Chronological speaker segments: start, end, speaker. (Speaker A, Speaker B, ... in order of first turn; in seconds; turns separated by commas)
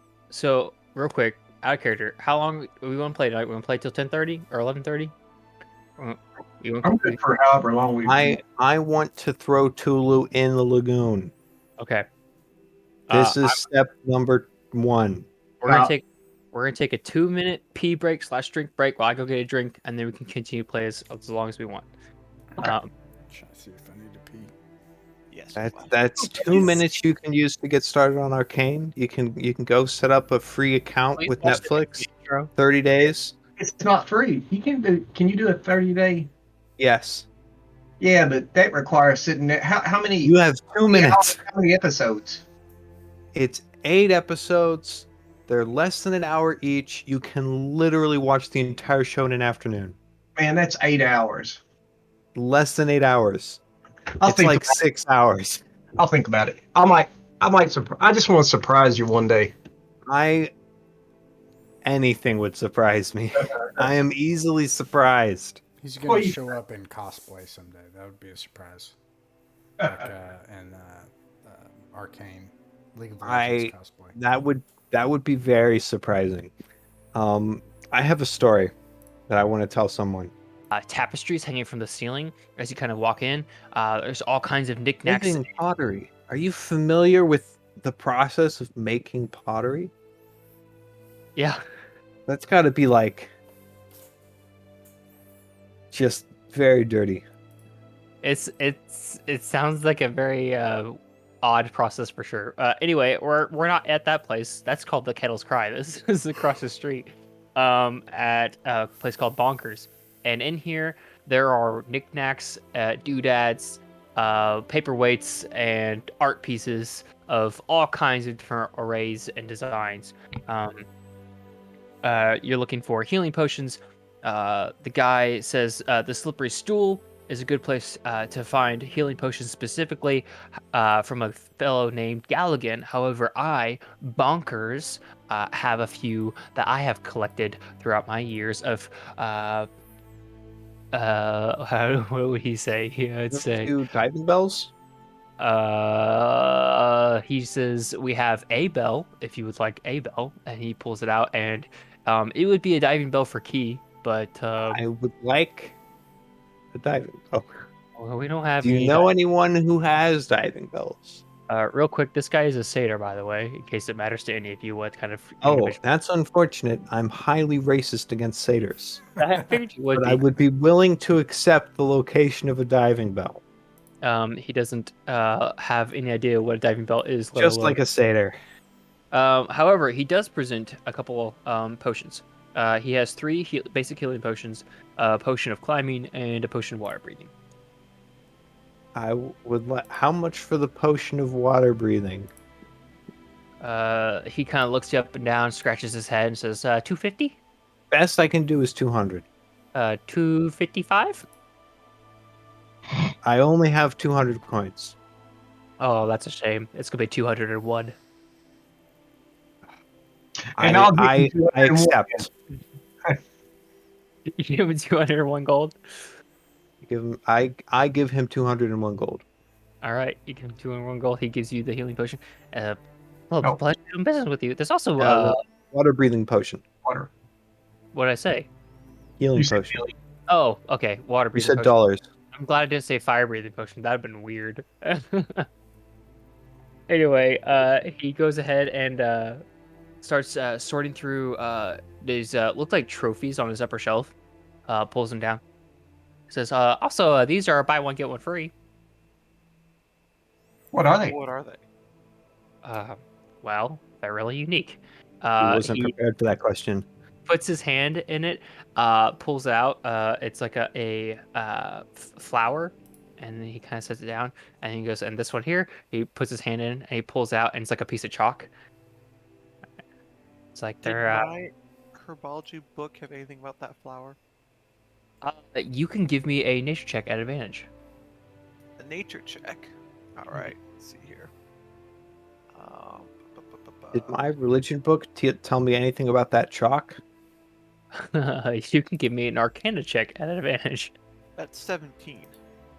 Speaker A: 0.3-5.2, Speaker A: 6.0-7.2, Speaker B: 6.8-8.4, Speaker C: 8.1-11.3, Speaker A: 11.8-12.1, Speaker A: 13.1-13.6, Speaker C: 13.1-15.3, Speaker A: 15.6-21.9, Speaker B: 15.7-15.9, Speaker A: 22.6-22.9, Speaker D: 23.3-24.5, Speaker E: 25.3-25.9, Speaker C: 25.6-33.3, Speaker B: 26.3-26.8, Speaker A: 31.2-32.5, Speaker B: 33.6-36.3, Speaker C: 36.8-37.3, Speaker B: 38.0-40.3, Speaker C: 40.2-41.4, Speaker B: 40.9-42.4, Speaker C: 43.3-50.0, Speaker B: 50.4-51.6, Speaker C: 52.4-53.6, Speaker B: 54.2-54.8, Speaker C: 54.2-55.6, Speaker B: 56.0-59.5, Speaker C: 60.1-60.5, Speaker C: 61.8-65.6, Speaker D: 65.8-69.0, Speaker B: 66.0-66.5, Speaker B: 69.8-70.1, Speaker D: 69.8-74.2, Speaker C: 73.2-76.5, Speaker C: 77.1-78.7, Speaker C: 79.3-80.3, Speaker A: 80.7-85.5, Speaker C: 85.0-89.9, Speaker C: 92.3-93.3, Speaker C: 95.9-97.2, Speaker A: 98.2-120.9, Speaker A: 122.0-139.7, Speaker A: 140.9-143.7, Speaker C: 143.3-144.7, Speaker A: 145.4-154.8, Speaker C: 154.7-155.8, Speaker C: 156.7-157.6, Speaker A: 158.0-159.1, Speaker C: 158.6-161.2, Speaker A: 161.5-165.8, Speaker C: 165.4-169.0, Speaker A: 169.2-170.2, Speaker C: 169.9-173.4, Speaker A: 174.0-177.8, Speaker C: 177.4-178.4, Speaker A: 179.1-187.3, Speaker C: 188.9-192.3, Speaker A: 193.6-197.4, Speaker C: 197.9-199.3, Speaker A: 199.7-201.2, Speaker C: 203.2-205.0, Speaker A: 205.8-208.0, Speaker B: 210.6-212.2, Speaker C: 210.6-212.3, Speaker A: 214.3-216.1, Speaker C: 216.8-219.2, Speaker A: 219.8-222.8, Speaker A: 223.3-225.4, Speaker C: 225.0-226.6, Speaker B: 226.8-227.1, Speaker A: 227.9-228.5, Speaker C: 229.2-229.8, Speaker B: 229.4-229.9, Speaker A: 230.3-231.8, Speaker C: 231.3-232.0, Speaker A: 232.3-235.5, Speaker A: 236.9-239.4, Speaker A: 240.0-244.1, Speaker A: 244.7-245.4, Speaker A: 246.3-248.5, Speaker B: 250.7-251.2, Speaker E: 251.0-251.6, Speaker A: 252.6-255.9, Speaker C: 255.4-256.9, Speaker A: 257.3-268.5, Speaker A: 270.6-271.3, Speaker E: 270.8-274.2, Speaker A: 275.2-277.7, Speaker E: 278.8-281.3, Speaker E: 282.5-284.3, Speaker C: 283.9-287.0, Speaker A: 288.0-290.9, Speaker E: 291.4-292.4